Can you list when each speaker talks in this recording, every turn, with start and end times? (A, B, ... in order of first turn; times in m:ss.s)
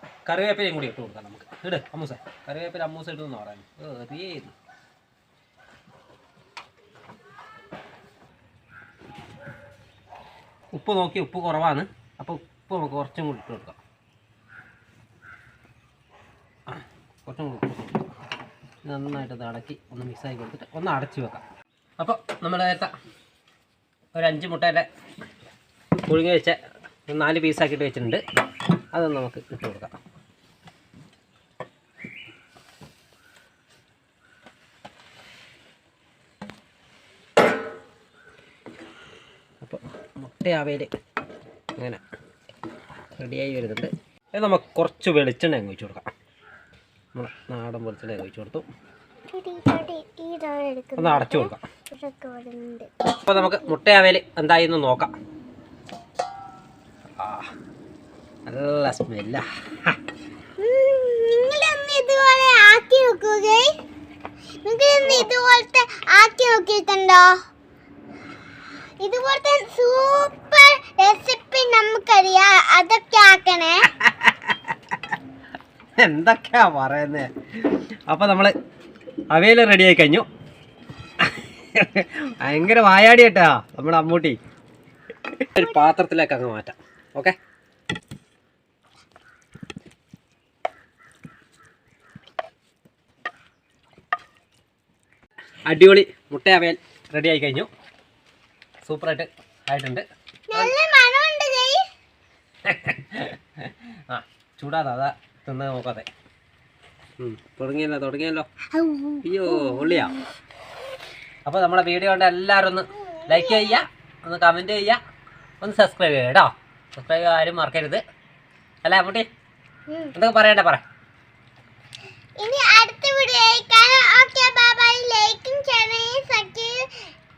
0:00.3-0:04.6 A
0:10.7-0:13.8 A
0:16.7-0:18.0 A
0:18.9-0:21.4 A
0:22.0-0:22.9 A
0:24.2-0:24.9 A
0:26.1-0:28.2 A
0:28.9-0:30.0 A
0:39.6-0:40.9 A
0:41.8-0:42.0 A
0:43.2-0:46.1 A
0:47.2-0:48.6 A
0:49.3-0:53.7 B
0:51.0-0:51.6 A
0:53.2-0:55.1 A
0:57.2-0:57.5 A
0:58.5-1:00.0 A
1:00.6-1:03.7 B
1:04.6-1:07.3 B
1:05.0-1:05.3 A
1:09.0-1:13.9 B
1:14.0-1:15.0 A
1:16.0-1:18.5 A
1:19.3-1:20.3 A
1:21.2-1:24.4 A
1:25.4-1:27.4 A
1:35.7-1:37.7 A
1:38.8-1:40.7 A
1:40.5-1:41.8 B
1:42.6-1:46.1 A
1:47.2-1:48.5 A
1:48.7-1:50.2 B
1:49.2-1:50.2 A
1:51.5-1:55.0 A
1:53.2-1:53.8 B
1:55.6-1:58.0 A
1:58.8-1:59.3 A
2:00.1-2:00.8 A
2:02.4-2:07.0 B